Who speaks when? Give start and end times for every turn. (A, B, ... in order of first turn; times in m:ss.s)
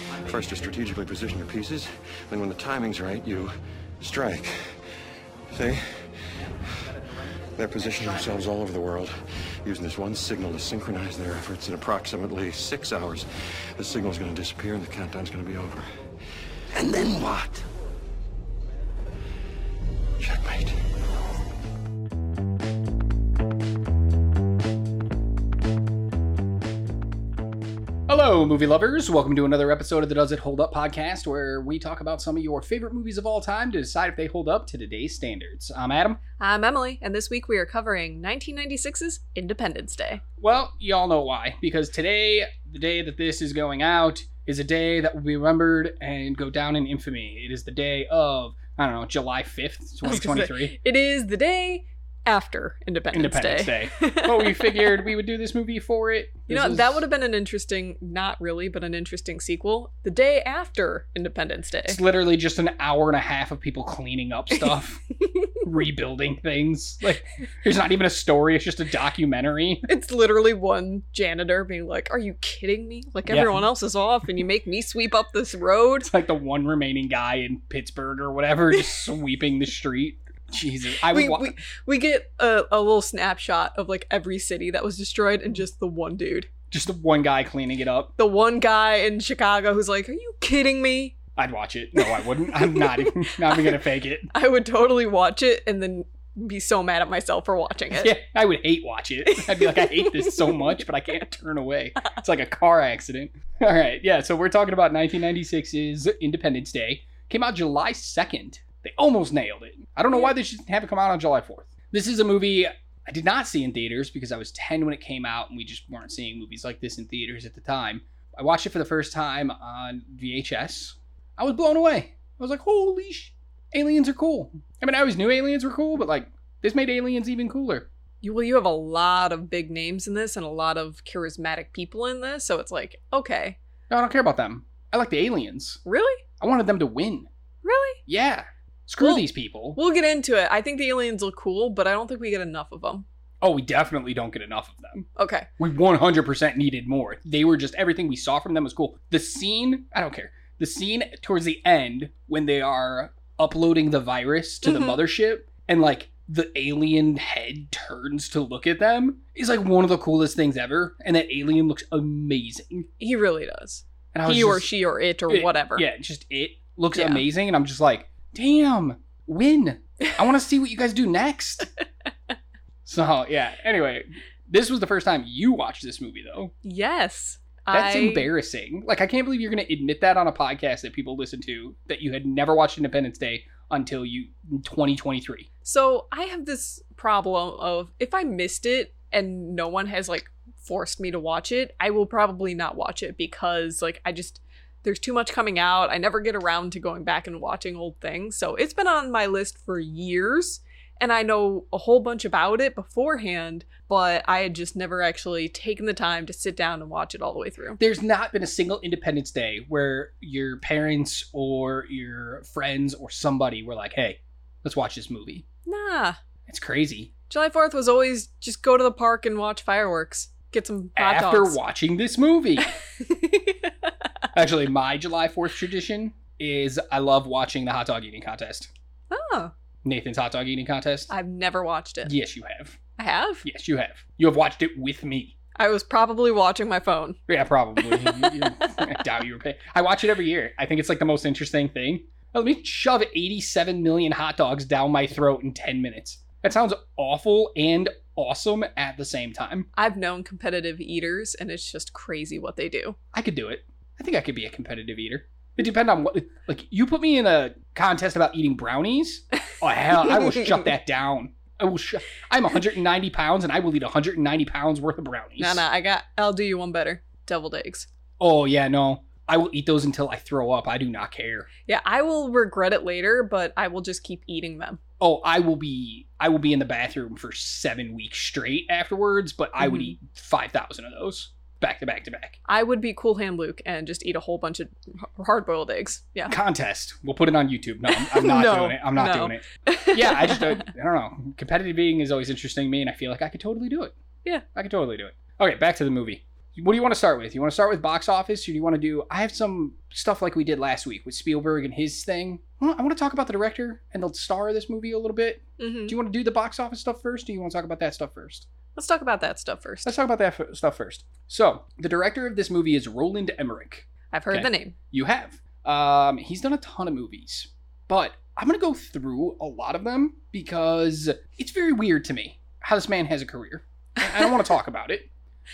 0:00.2-0:04.7 A
0:05.5-0:05.8 A
0:07.5-0:15.9 A
0:16.7-0:17.6 A
0:20.2-0:20.8 A
0:28.1-0:36.2 B
0:36.4-0:40.2 C
0:40.4-0:50.8 B
0:50.0-0:55.1 C
0:53.1-0:57.0 B
0:56.5-1:02.0 C
1:01.9-1:05.0 B
1:05.6-1:09.8 B
1:09.9-1:16.1 C
1:13.3-1:13.6 B
1:16.0-1:21.5 B
1:21.1-1:26.5 C
1:26.7-1:28.1 B
1:28.2-1:31.2 C
1:31.4-1:34.3 B
1:32.0-1:33.8 C
1:34.3-1:38.1 C
1:37.9-2:07.9 B
1:39.2-1:40.8 C
2:08.2-2:13.6 C
2:13.9-2:15.8 B
2:15.8-2:16.2 C
2:16.4-2:17.3 B
2:17.6-2:18.0 C
2:18.1-2:19.8 B
2:19.0-2:23.0 C
2:23.4-2:25.1 B
2:25.2-2:25.5 C
2:25.6-2:42.9 B
2:34.6-2:35.0 C
2:43.0-2:45.8 C
2:44.1-2:44.7 B
2:45.3-2:51.7 B
2:46.9-2:47.2 C
2:52.8-2:56.5 B
2:56.6-2:58.3 C
2:57.7-3:05.5 B
3:05.6-3:27.8 C
3:27.8-3:35.4 B
3:35.6-3:36.2 C
3:36.5-3:37.1 B
3:37.3-3:41.6 C
3:41.0-3:42.7 B
3:43.0-3:43.7 C
3:44.3-3:48.7 B
3:49.1-3:49.5 C
3:49.8-3:51.1 B
3:51.1-3:52.1 C
3:52.0-3:52.8 B
3:53.0-3:53.4 C
3:53.4-3:55.3 B
3:55.6-3:57.2 C
3:57.3-4:09.7 B
3:58.0-3:58.4 C
4:09.8-4:13.0 C
4:13.1-4:25.6 B
4:25.4-4:27.9 C
4:28.2-4:31.5 B
4:31.6-4:34.8 C
4:35.0-4:42.4 B
4:39.6-4:39.9 C
4:42.5-4:46.4 C
4:46.3-4:54.0 B
4:47.9-4:50.6 C
4:54.5-5:08.5 B
5:05.6-5:06.0 C
5:08.8-5:09.9 C
5:09.8-5:25.1 B
5:14.1-5:14.7 C